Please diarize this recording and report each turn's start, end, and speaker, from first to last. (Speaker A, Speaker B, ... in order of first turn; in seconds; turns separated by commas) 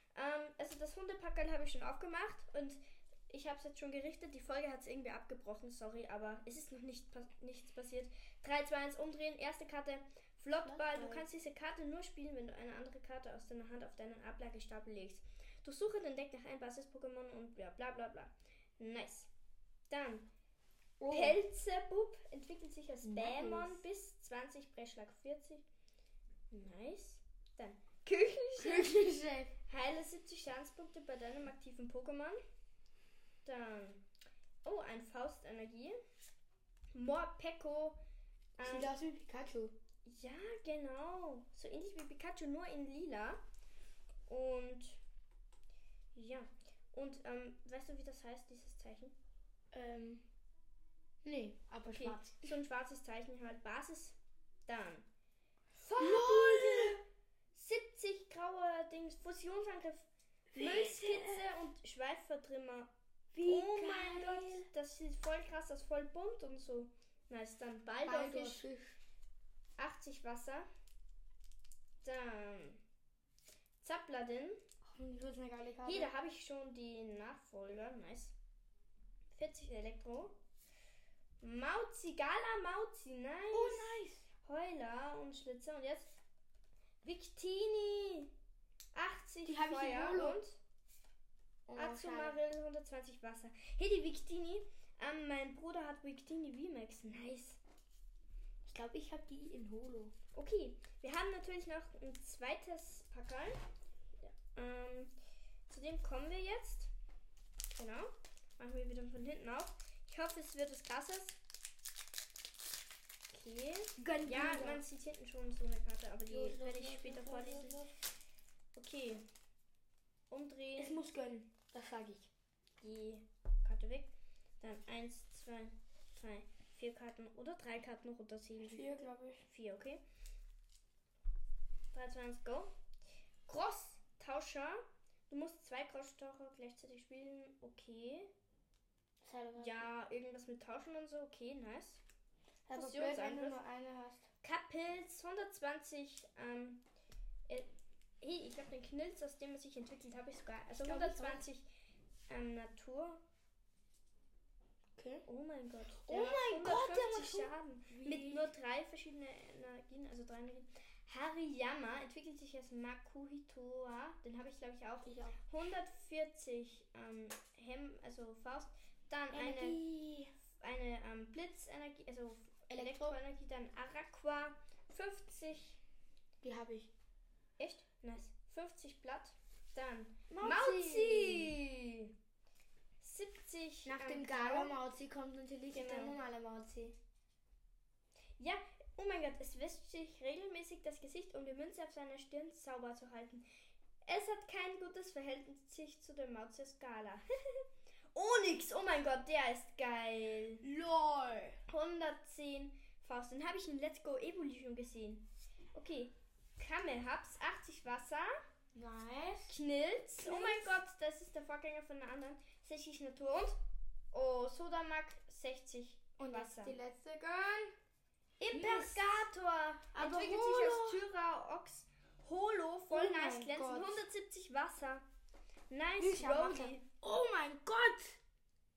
Speaker A: 0.1-2.8, Speaker A: 3.3-19.3, Speaker B: 10.6-11.2, Speaker A: 19.9-20.3, Speaker B: 21.0-21.4, Speaker A: 21.1-25.6, Speaker B: 23.0-23.8, Speaker A: 26.5-28.9, Speaker B: 28.6-29.5, Speaker A: 29.7-32.4, Speaker A: 33.5-34.0, Speaker A: 34.6-36.0, Speaker A: 36.9-38.0, Speaker A: 38.6-38.9, Speaker B: 38.6-39.8, Speaker A: 40.0-43.4, Speaker A: 44.3-45.0, Speaker A: 46.1-49.2, Speaker B: 49.7-50.2, Speaker B: 51.2-52.5, Speaker A: 51.9-55.0, Speaker A: 55.9-57.0, Speaker B: 55.9-57.0, Speaker A: 57.5-62.9, Speaker B: 60.5-61.5, Speaker B: 63.3-64.7, Speaker A: 63.4-68.6, Speaker B: 68.0-69.0, Speaker A: 69.8-70.7, Speaker A: 72.0-72.8, Speaker A: 73.8-74.6, Speaker B: 74.8-76.1, Speaker A: 75.8-78.3, Speaker A: 79.3-80.3, Speaker A: 81.4-86.1, Speaker B: 83.5-84.2, Speaker A: 87.0-88.3, Speaker A: 88.9-90.6, Speaker B: 89.4-90.4, Speaker B: 91.7-92.4, Speaker A: 91.8-97.6, Speaker B: 98.6-100.1, Speaker A: 100.3-103.6, Speaker A: 104.2-105.1, Speaker A: 105.7-106.9, Speaker A: 107.8-111.4, Speaker A: 113.3-117.8, Speaker B: 114.0-114.8, Speaker B: 116.3-117.9, Speaker A: 118.8-119.2, Speaker A: 120.3-121.0, Speaker B: 120.8-122.3, Speaker A: 122.8-128.9, Speaker B: 128.6-129.4, Speaker A: 129.5-130.0, Speaker A: 131.9-132.7, Speaker A: 133.5-138.3, Speaker B: 139.2-139.9, Speaker A: 139.6-142.0, Speaker B: 142.7-144.3, Speaker A: 142.7-143.6, Speaker A: 144.4-146.8, Speaker A: 148.2-151.7, Speaker B: 150.8-151.4, Speaker A: 152.3-153.2, Speaker B: 155.0-155.2, Speaker A: 155.2-169.8, Speaker B: 156.0-158.5, Speaker B: 165.0-165.4, Speaker B: 169.3-170.3, Speaker A: 170.6-175.8, Speaker B: 172.7-173.2, Speaker B: 176.4-176.9, Speaker A: 177.6-182.1, Speaker B: 180.3-181.5, Speaker A: 183.0-184.8, Speaker B: 183.8-186.9, Speaker A: 185.7-186.2, Speaker A: 188.4-193.4, Speaker A: 194.1-200.6, Speaker B: 200.6-201.6, Speaker A: 201.7-208.3, Speaker B: 208.8-209.5, Speaker A: 209.5-213.6, Speaker B: 210.2-210.7, Speaker A: 214.1-216.8, Speaker B: 216.2-217.7, Speaker A: 218.4-225.0, Speaker B: 218.5-219.2, Speaker B: 219.9-221.0, Speaker B: 222.9-224.0, Speaker A: 225.7-226.8, Speaker B: 226.0-228.2